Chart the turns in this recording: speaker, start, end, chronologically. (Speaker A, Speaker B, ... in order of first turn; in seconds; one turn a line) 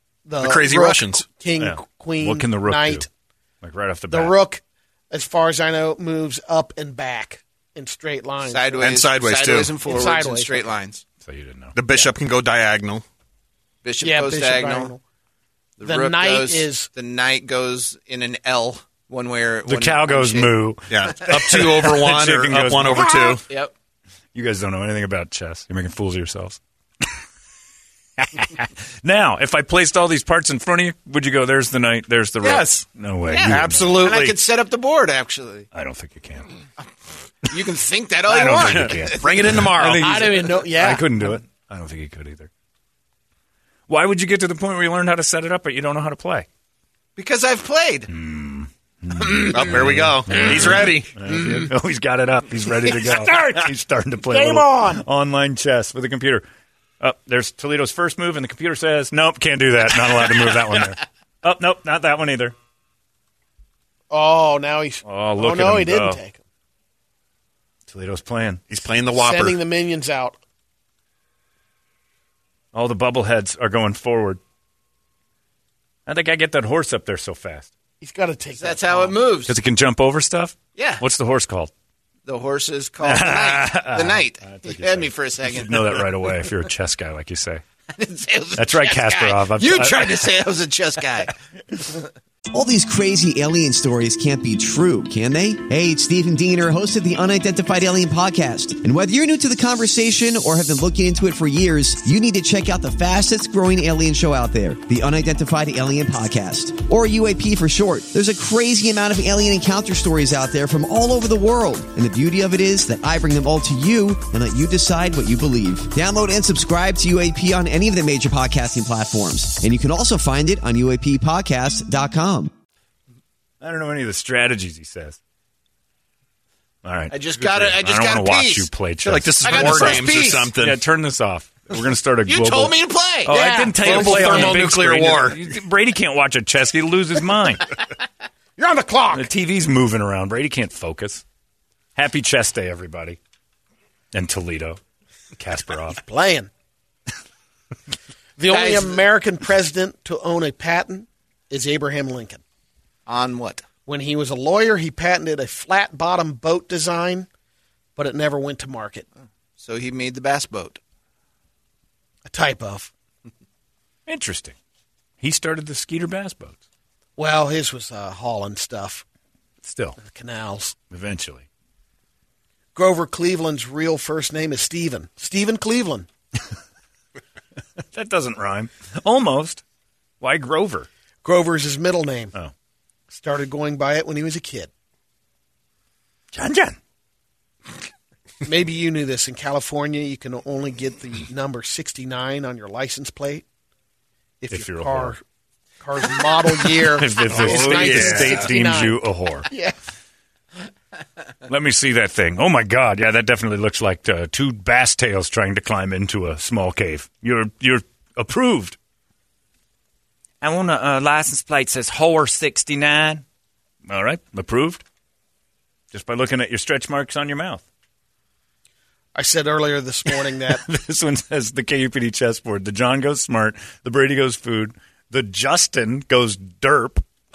Speaker A: 0.2-3.1
Speaker B: 0.4-1.3
Speaker C: 1.6-3.0
Speaker C: 3.6-4.3
Speaker A: 4.1-9.0
Speaker D: 8.4-11.0
Speaker B: 8.8-9.8
Speaker A: 9.8-10.7
Speaker C: 11.2-12.1
Speaker B: 11.7-13.0
Speaker D: 13.8-14.9
Speaker A: 14.0-15.0
Speaker D: 15.8-20.5
Speaker A: 15.8-16.9
Speaker C: 19.6-23.4
Speaker B: 20.9-23.4
Speaker D: 21.2-21.6
Speaker D: 23.2-23.7
Speaker C: 24.3-27.1
Speaker C: 28.2-34.3
Speaker D: 32.4-35.7
Speaker B: 33.5-34.1
Speaker C: 35.7-36.5
Speaker D: 37.4-39.7
Speaker C: 38.3-42.5
Speaker B: 38.5-40.1
Speaker A: 40.0-41.3
Speaker C: 43.9-46.5
Speaker D: 47.2-48.1
Speaker C: 48.1-56.4
Speaker B: 49.5-51.2
Speaker A: 52.9-53.6
Speaker A: 54.3-55.0
Speaker C: 57.0-62.5
Speaker A: 64.1-66.3
Speaker C: 65.0-66.2
Speaker C: 67.9-68.6
Speaker B: 68.7-69.6
Speaker A: 69.2-70.4
Speaker C: 72.7-74.4
Speaker C: 76.0-77.7
Speaker A: 78.0-79.1
Speaker D: 78.5-79.5
Speaker C: 79.5-81.7
Speaker D: 80.8-81.0
Speaker D: 82.2-86.4
Speaker C: 83.0-87.6
Speaker D: 87.9-91.9
Speaker C: 88.5-90.3
Speaker E: 92.5-122.5
Speaker C: 123.6-125.2
Speaker C: 126.8-137.7
Speaker D: 127.1-128.7
Speaker B: 129.0-130.9
Speaker D: 129.4-130.5
Speaker D: 132.2-133.4
Speaker A: 133.3-134.5
Speaker B: 133.4-135.5
Speaker D: 133.9-134.6
Speaker A: 138.6-139.3
Speaker C: 139.1-141.2
Speaker C: 141.9-143.2
Speaker C: 144.1-144.8
Speaker C: 145.4-146.0
Speaker A: 145.9-146.5
Speaker A: 148.4-152.4
Speaker D: 148.5-149.1
Speaker D: 153.1-153.6
Speaker A: 153.8-157.3
Speaker A: 157.9-159.1
Speaker D: 159.6-160.8
Speaker A: 162.2-162.9
Speaker C: 164.1-164.5
Speaker C: 165.2-166.6
Speaker A: 167.2-169.0
Speaker C: 169.6-170.0
Speaker A: 170.0-170.8
Speaker C: 170.9-171.4
Speaker A: 172.7-176.1
Speaker C: 177.9-179.6
Speaker C: 180.2-180.9
Speaker A: 181.2-182.3
Speaker A: 183.1-184.7
Speaker C: 186.3-186.8
Speaker A: 188.4-193.4
Speaker A: 194.4-195.2
Speaker C: 194.5-195.1
Speaker A: 195.8-199.8
Speaker C: 196.7-199.5
Speaker B: 197.3-198.5
Speaker C: 201.5-208.8
Speaker C: 210.4-213.2
Speaker C: 213.9-214.8
Speaker C: 215.9-217.6
Speaker A: 219.1-220.6
Speaker C: 220.5-227.0